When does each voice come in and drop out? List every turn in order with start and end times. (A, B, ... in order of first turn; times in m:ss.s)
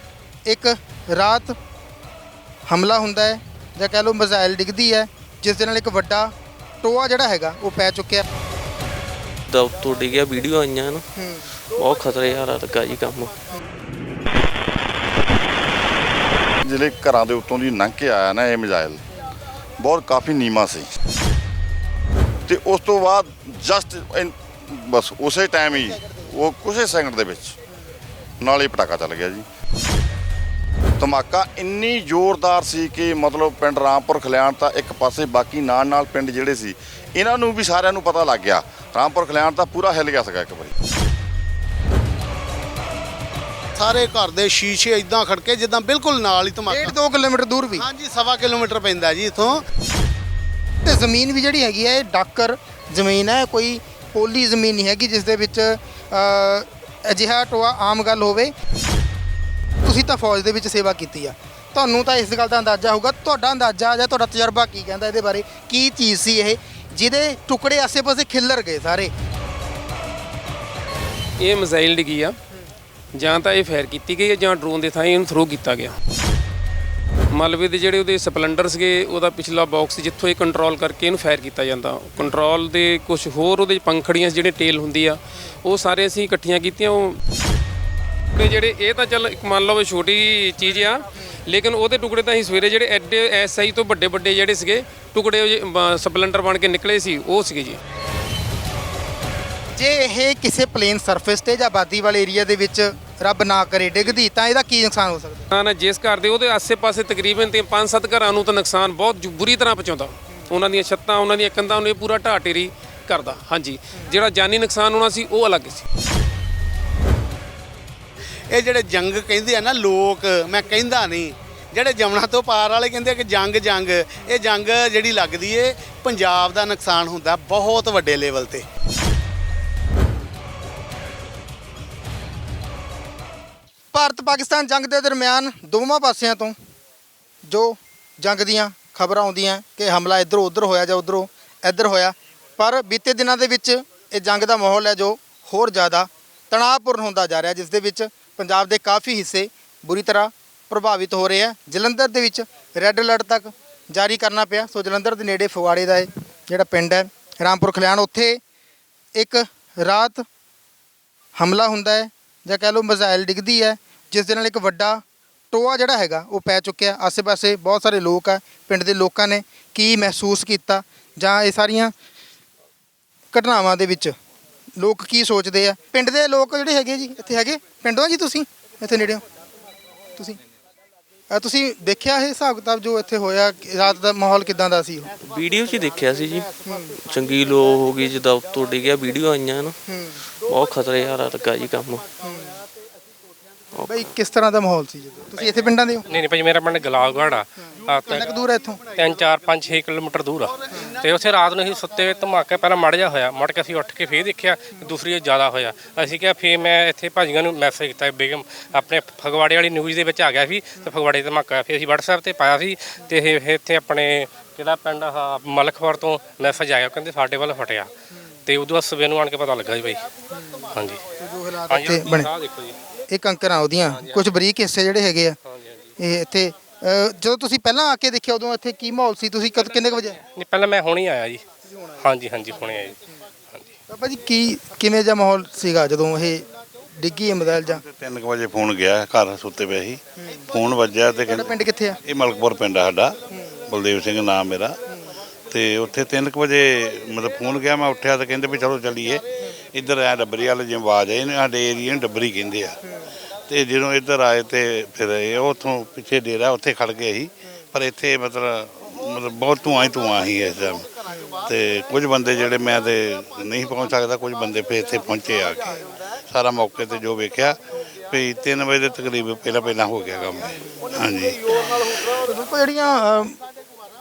0:00.5-0:01.5 A
0:02.7-0:06.3 A
0:06.8-0:08.2 A
0:09.5-0:11.0 B
0:11.8-0:13.3 B
0:16.6-0:19.0 C
0:19.8-0:20.9 C
0:22.5-0:27.6 C
0:28.4-0:29.4 C
0:31.0-0:40.7 C
0:43.8-0:46.9 D
0:46.7-0:47.8 A
0:47.8-0:49.6 D
0:50.8-0:58.5 A
0:59.8-1:09.1 A
1:11.4-1:12.4 E
1:13.2-1:16.0 E
1:17.3-1:27.2 E
1:28.3-1:37.8 E
1:39.8-1:45.5 A
1:45.5-1:55.8 E
1:58.5-2:08.7 D
2:13.9-2:16.6 A
2:17.5-2:38.4 A
2:39.2-2:40.2 A
2:41.4-2:51.9 A
2:53.3-2:54.2 A
2:54.8-2:59.2 A
3:01.3-3:05.1 A
3:05.2-3:09.8 B
3:10.4-3:12.0 B
3:13.9-3:16.0 A
3:16.1-3:18.3 F
3:18.1-3:18.8 A
3:19.0-3:37.9 F
3:38.5-3:40.0 F
3:40.8-3:41.0 F
3:41.2-3:42.3 A
3:41.7-3:42.8 F
3:43.1-3:45.4 A
3:43.9-3:44.2 F
3:45.5-3:45.9 F
3:46.0-3:50.2 A
3:50.2-3:51.4 F
3:52.0-3:53.0 F
3:53.9-3:56.4 A
3:57.0-3:57.8 A
3:57.6-4:04.8 G
4:01.3-4:02.0 A
4:05.5-4:09.2 G
4:09.7-4:12.8 G
4:13.5-4:20.9 G
4:21.4-4:25.7 G
4:26.3-4:27.6 G
4:28.1-4:31.5 G
4:32.1-4:33.4 A